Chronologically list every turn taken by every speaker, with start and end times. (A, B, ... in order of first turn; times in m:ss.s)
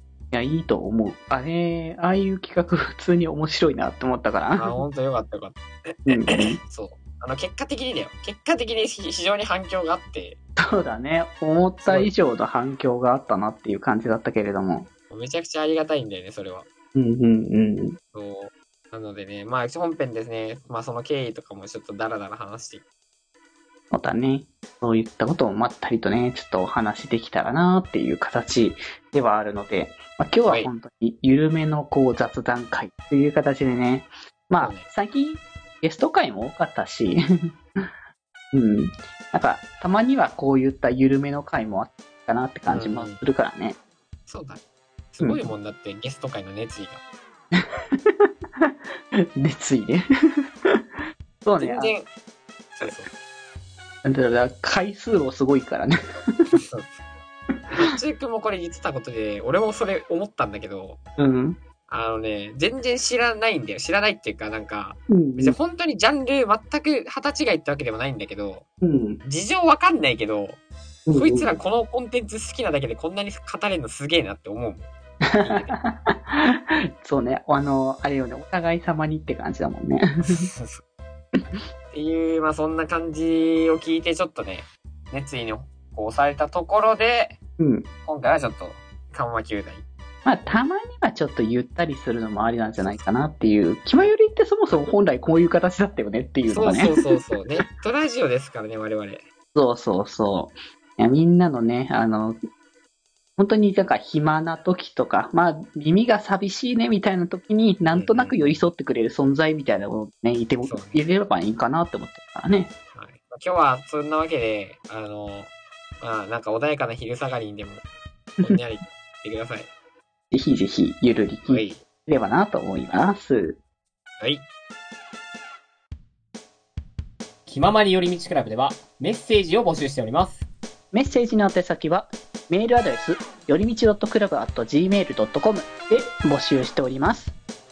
0:00.3-0:04.8 A
0:04.6-0:10.4 B
0:06.1-0:06.6 A
0:10.6-0:14.9 A
0:11.8-0:12.1 B
0:15.1-0:16.7 B
0:16.9-0:18.0 A
0:18.1-0:22.8 B
0:23.9-0:37.2 A
0:34.6-0:34.9 B
0:38.5-0:43.8 A
0:42.7-0:43.2 B
0:44.3-0:44.6 B
0:45.1-0:47.0 B
0:45.2-0:45.5 A
0:47.6-0:48.7 A
0:49.4-0:50.0 A
0:51.4-0:51.9 A
0:51.6-0:52.1 B
0:52.8-0:53.1 B
0:54.0-0:56.6 A
0:56.5-0:56.9 B
0:57.7-1:01.0 B
1:01.2-1:01.6 A
1:01.9-1:08.6 B
1:05.1-1:05.6 A
1:08.8-1:09.2 A
1:09.2-1:10.6 B
1:11.1-1:11.5 A
1:11.1-1:14.9 B
1:15.3-1:20.0 A
1:15.4-1:15.8 B
1:20.2-1:20.8 B
1:21.9-1:27.4 B
1:27.6-1:27.9 A
1:28.0-1:29.8 B
1:30.2-1:37.2 A
1:36.4-1:39.2 B
1:39.5-1:42.4 A
1:43.4-1:52.7 A
1:47.9-1:48.7 B
1:50.6-1:51.1 B
1:52.9-1:57.8 B
1:58.4-1:59.7 B
2:00.3-2:03.6 A
2:01.5-2:01.8 B
2:04.2-2:04.5 B
2:07.5-2:10.5 B
2:10.9-2:17.3 A